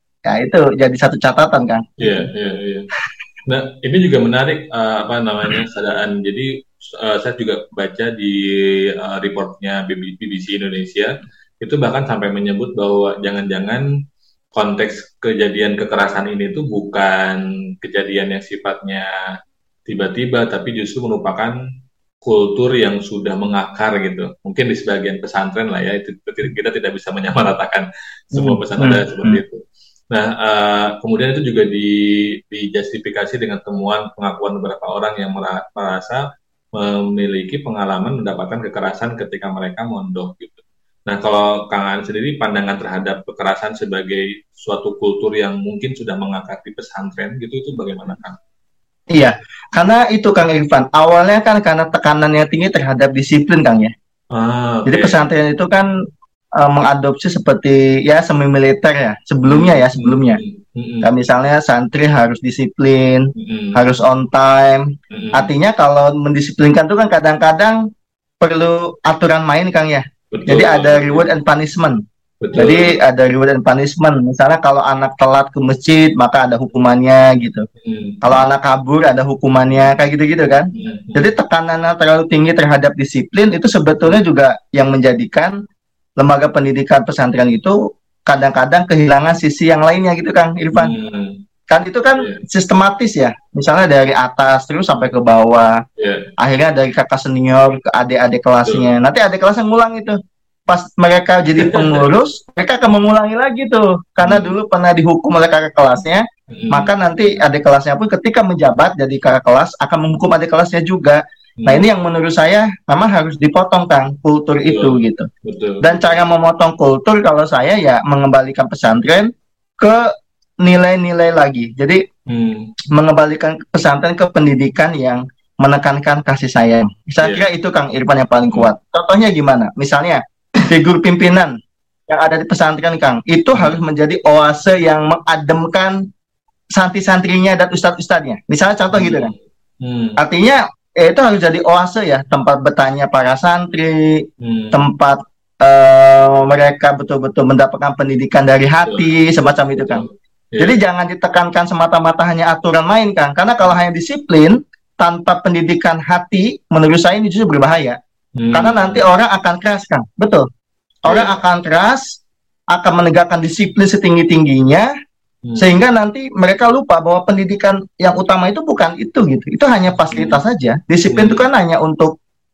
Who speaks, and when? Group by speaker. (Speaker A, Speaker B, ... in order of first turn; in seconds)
Speaker A: 0.3-1.8, 28.3-29.4, 49.1-53.9, 54.9-55.9, 56.5-60.4, 61.0-67.8, 68.4-72.0, 72.5-77.7, 78.2-85.5, 86.2-90.9, 91.7-95.8, 96.4-100.2, 100.7-115.3, 115.8-119.3, 120.6-122.0, 122.9-131.5, 132.1-136.0, 136.7-139.3, 140.2-150.0, 150.6-158.0, 158.5-160.4, 161.1-162.2, 162.7-164.9, 165.6-172.1
Speaker B: 2.0-2.9, 3.5-13.8, 14.5-19.1, 19.9-21.6, 22.2-36.2, 36.7-48.4, 54.3-55.2, 59.4-61.1, 63.4-63.8, 65.1-65.5, 70.3-71.3, 72.4-73.0, 77.8-78.5, 80.7-81.3, 90.7-91.4, 96.0-96.3, 101.5-102.1, 104.2-104.5, 106.5-106.9, 111.6-111.9, 114.6-116.0, 122.3-122.7, 133.5-133.8, 138.9-140.2, 144.4-144.8, 148.8-150.8, 158.4-159.0, 161.1-161.4, 165.4-165.7, 170.1-170.4, 171.1-171.4